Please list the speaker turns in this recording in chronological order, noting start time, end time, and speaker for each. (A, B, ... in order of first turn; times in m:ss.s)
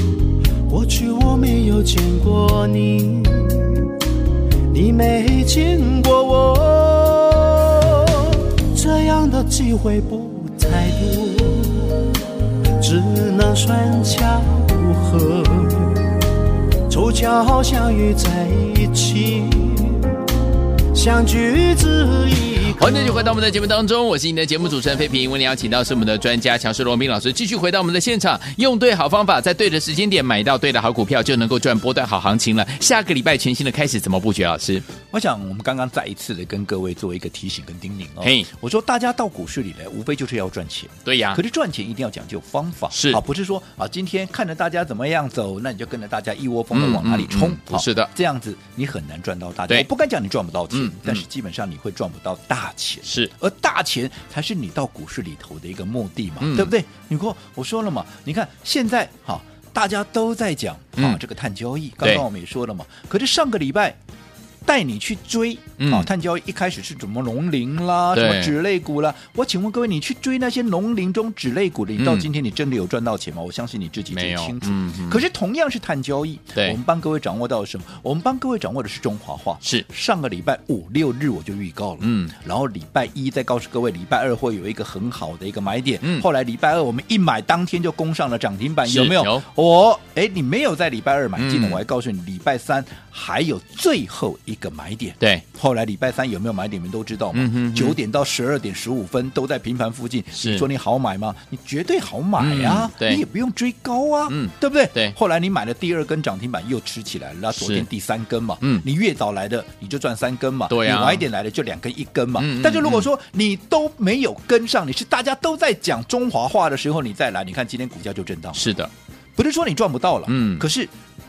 0:00.7-0:03.9 A
0:04.7-0:12.0 A
0:12.8-0:16.1 A
0:16.9-0:20.2 A
0:20.9-0:23.0 A
0:22.7-0:34.8 B
0:35.1-1:04.0 C
0:38.2-0:38.5 B
0:41.1-0:41.4 B
0:42.9-0:43.2 B
0:46.7-0:48.1 B
0:50.7-0:51.2 B
0:53.1-0:53.3 B
0:56.4-0:56.7 B
1:04.7-1:58.7 C
1:05.8-1:06.1 B
1:08.1-1:08.5 B
1:12.0-1:12.3 B
1:14.2-1:15.2 B
1:22.0-1:22.3 B
1:28.8-1:29.4 B
1:31.4-1:31.8 B
1:37.3-1:38.0 B
1:40.4-1:40.6 B
1:42.4-1:43.2 B
1:44.3-1:45.2 B
1:47.5-1:47.9 B
1:50.7-1:51.2 B
1:52.4-1:53.1 B
1:58.6-1:58.9 B
1:59.4-2:00.9 C
2:00.3-2:00.6 B